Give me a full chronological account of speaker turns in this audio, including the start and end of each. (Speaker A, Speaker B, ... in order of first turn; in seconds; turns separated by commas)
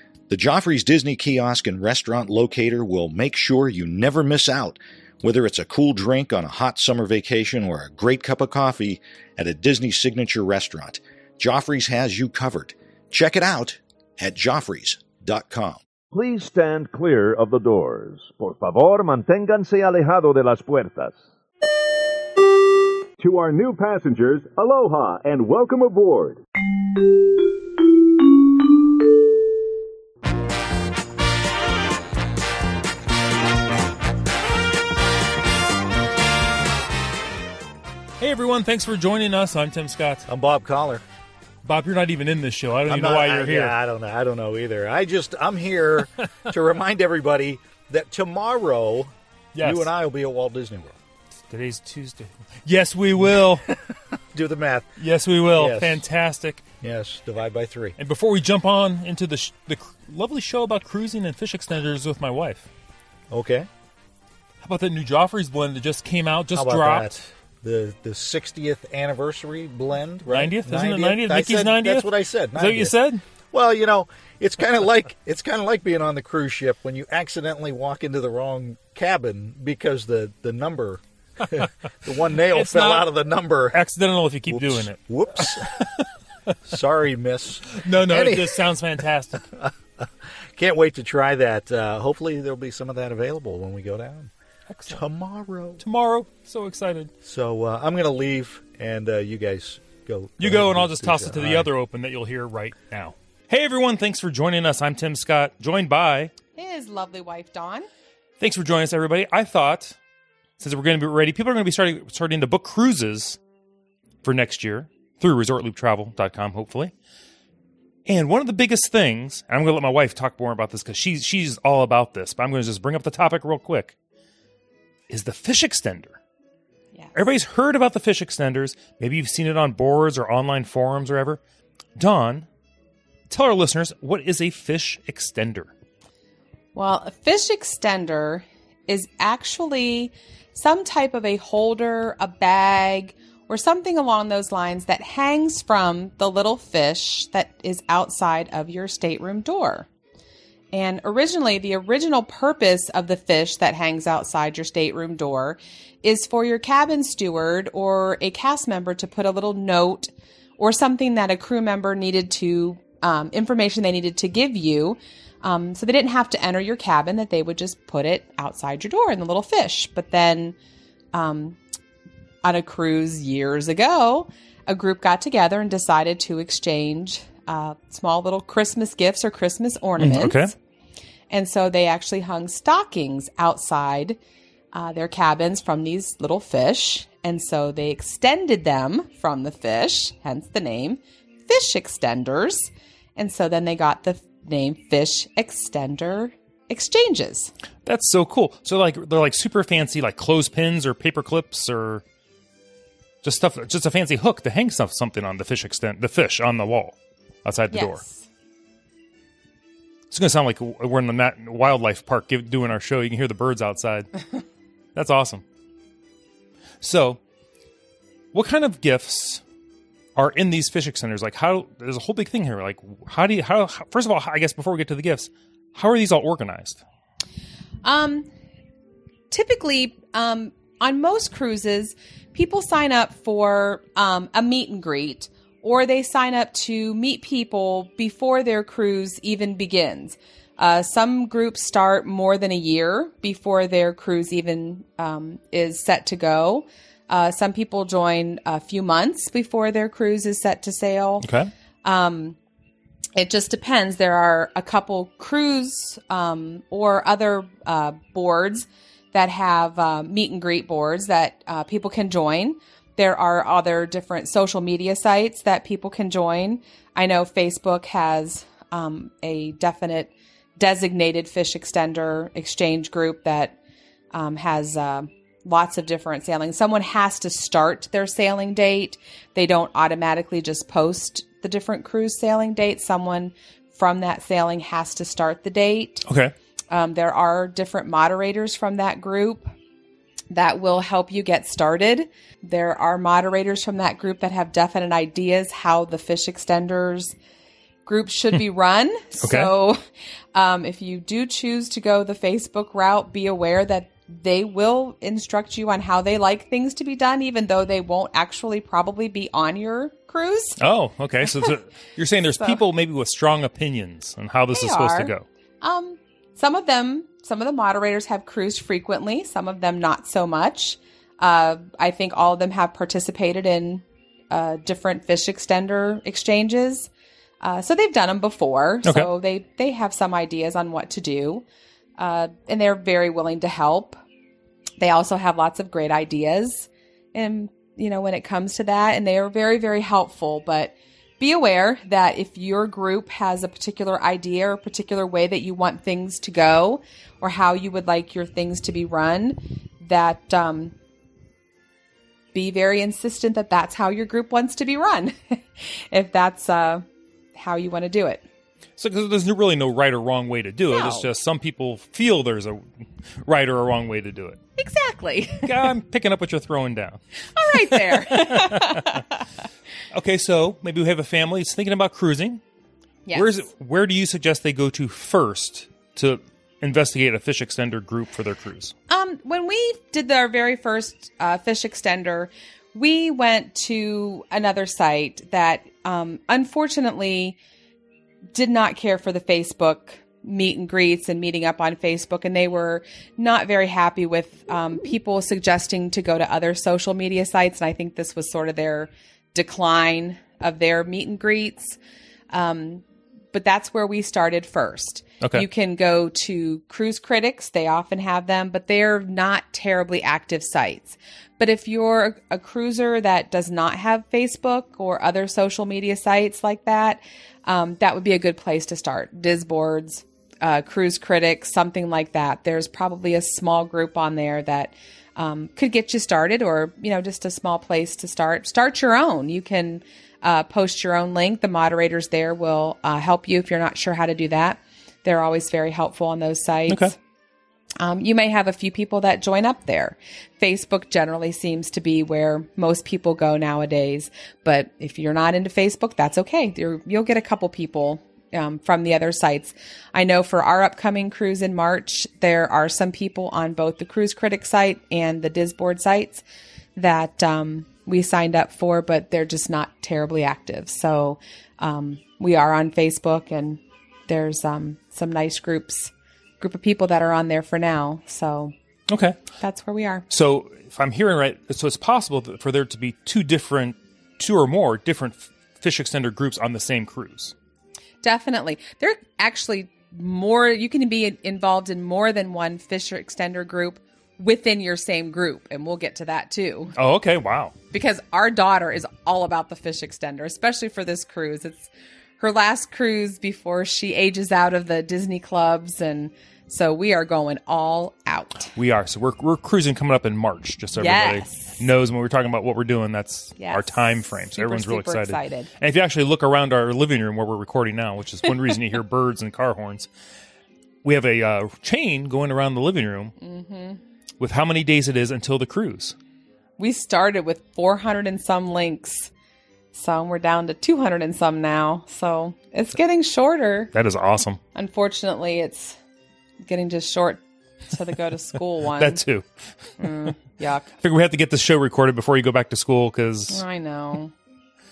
Speaker A: 0.3-15.8, Speaker B: 16.1-21.2, Speaker B: 23.2-26.4, Speaker C: 38.2-40.2, Speaker D: 40.3-41.0, Speaker C: 41.6-43.7, Speaker D: 42.9-49.1, Speaker C: 49.5-49.9, Speaker D: 49.6-51.0, Speaker C: 51.5-53.7, Speaker D: 53.7-54.9, Speaker C: 55.0-56.6, Speaker D: 55.5-56.0, Speaker D: 56.8-58.0, Speaker C: 58.0-62.7, Speaker D: 63.3-63.7, Speaker C: 64.6-67.2, Speaker D: 66.5-72.9, Speaker C: 70.3-73.2, Speaker D: 73.5-83.8, Speaker C: 82.5-83.1, Speaker C: 83.7-86.5, Speaker D: 84.5-85.9, Speaker D: 86.6-88.7, Speaker C: 87.7-89.4, Speaker D: 89.5-94.3, Speaker C: 94.7-95.0, Speaker D: 94.9-95.8, Speaker C: 95.8-97.1, Speaker D: 97.2-101.7, Speaker C: 100.4-106.3, Speaker E: 106.5-107.9, Speaker C: 108.4-110.0, Speaker C: 110.6-113.4, Speaker C: 114.2-116.9, Speaker C: 118.0-123.9, Speaker C: 125.1-126.2, Speaker C: 127.1-131.4, Speaker C: 131.9-132.5, Speaker C: 133.3-135.7, Speaker E: 136.7-149.9, Speaker E: 150.7-170.5, Speaker E: 171.1-171.6, Speaker E: 172.4-180.5, Speaker C: 180.0-180.5, Speaker E: 181.3-184.2, Speaker E: 184.7-197.5, Speaker C: 197.8-202.0, Speaker C: 203.2-208.0, Speaker E: 207.7-208.3, Speaker C: 210.1-214.2, Speaker C: 214.9-215.4, Speaker C: 216.8-217.2, Speaker C: 218.3-219.4, Speaker C: 220.2-226.8, Speaker E: 227.8-228.3, Speaker E: 229.3-251.3, Speaker C: 251.2-251.5, Speaker E: 251.8-252.4, Speaker E: 253.2-273.6, Speaker E: 274.1-286.1, Speaker C: 286.1-286.3, Speaker E: 286.7-289.5, Speaker E: 290.3-297.1, Speaker E: 297.9-299.8, Speaker C: 299.2-299.5, Speaker E: 300.3-310.6, Speaker C: 310.6-315.2, Speaker E: 314.5-326.9, Speaker E: 327.4-331.4, Speaker C: 328.8-329.1, Speaker E: 332.0-334.0, Speaker E: 334.8-350.7, Speaker E: 352.3-358.2, Speaker C: 358.8-362.7, Speaker E: 360.7-361.1, Speaker C: 363.2-364.4, Speaker E: 364.6-365.6, Speaker C: 365.4-367.0, Speaker E: 367.3-369.2, Speaker C: 367.5-369.0, Speaker C: 369.9-372.4, Speaker C: 373.1-378.7, Speaker E: 378.9-387.4, Speaker E: 388.3-401.8, Speaker E: 402.3-436.9, Speaker C: 436.7-436.9, Speaker E: 437.8-456.2, Speaker E: 456.8-468.5, Speaker C: 468.9-469.2, Speaker E: 469.4-470.0, Speaker C: 470.1-477.3, Speaker E: 478.0-486.8, Speaker C: 486.8-487.5, Speaker E: 487.7-498.5, Speaker C: 498.6-509.9, Speaker E: 500.8-501.6, Speaker E: 503.4-505.5, Speaker C: 510.8-513.1, Speaker E: 513.2-513.8, Speaker C: 514.2-515.9, Speaker E: 516.6-519.1, Speaker E: 519.7-523.7, Speaker C: 523.7-524.4, Speaker E: 524.5-525.8, Speaker E: 526.4-529.0, Speaker C: 528.8-529.2, Speaker E: 529.8-530.7, Speaker C: 530.8-533.4, Speaker E: 533.3-534.1